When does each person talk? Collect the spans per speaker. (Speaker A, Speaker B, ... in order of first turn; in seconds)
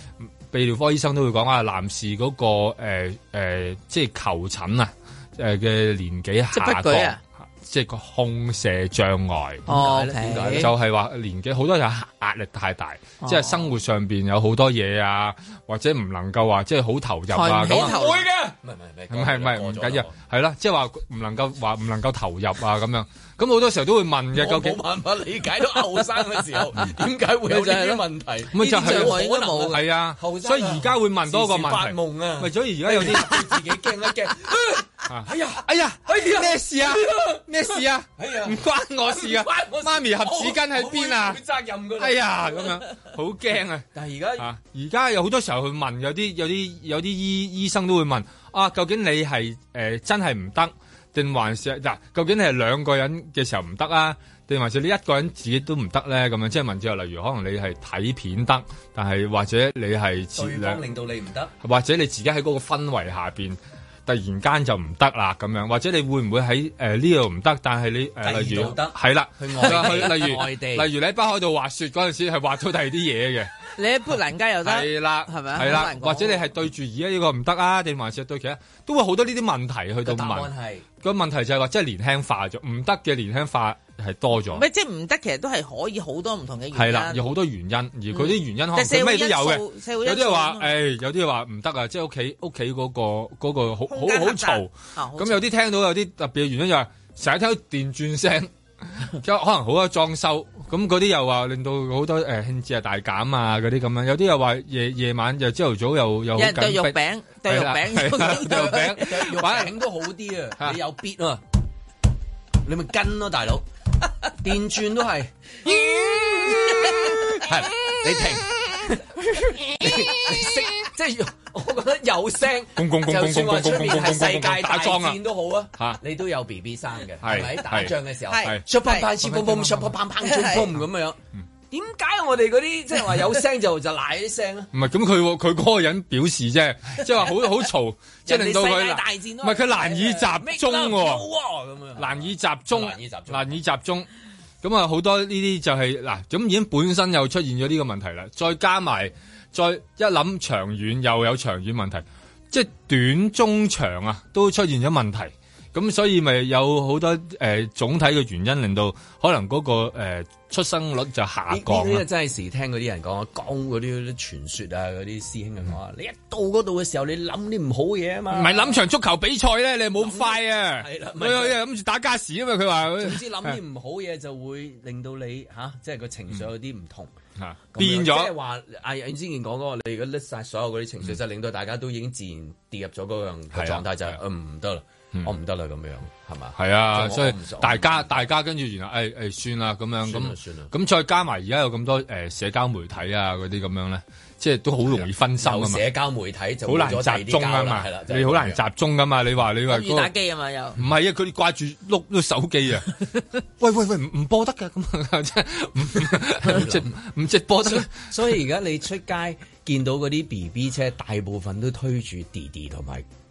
Speaker A: 0.5-9.7, 10.6-18.0, 19.1-24.8, 28.5-33.6, 35.1-41.4, 42.0-43.9, 44.4-60.8, 61.6-73.5, 74.6-84.7, 86.7-109.8, 122.8-125.2, 127.2-128.6, 129.2-130.0, 134.7-141.2, 142.0-144.1, 144.6-162.1, 168.3-173.6, 177.4-178.3, 183.5-184.2, 186.6-195.8, 196.7-200.1, 200.8-202.9, 203.6-208.1
Speaker B: 6.5-7.2, 9.7-10.7, 13.2-13.7, 17.3-18.2, 27.5-28.0, 28.5-29.8, 73.8-76.5, 84.5-87.2, 88.1-90.7, 93.9-95.4, 106.4-109.1, 128.3-129.1, 130.2-130.6, 199.7-200.8
Speaker C: 9.7-10.7, 17.6-20.1, 24.3-42.8, 44.0-44.5, 60.4-61.5, 68.2-70.9, 80.0-80.9, 108.4-111.4, 112.6-113.7, 114.4-115.3, 116.0-131.2, 131.7-134.7, 137.0-137.3, 138.3-143.6, 161.5-168.8, 170.0-171.6, 172.9-177.2, 177.7-188.2, 190.0-190.7, 194.9-198.6, 206.4-207.0, 207.6-213.1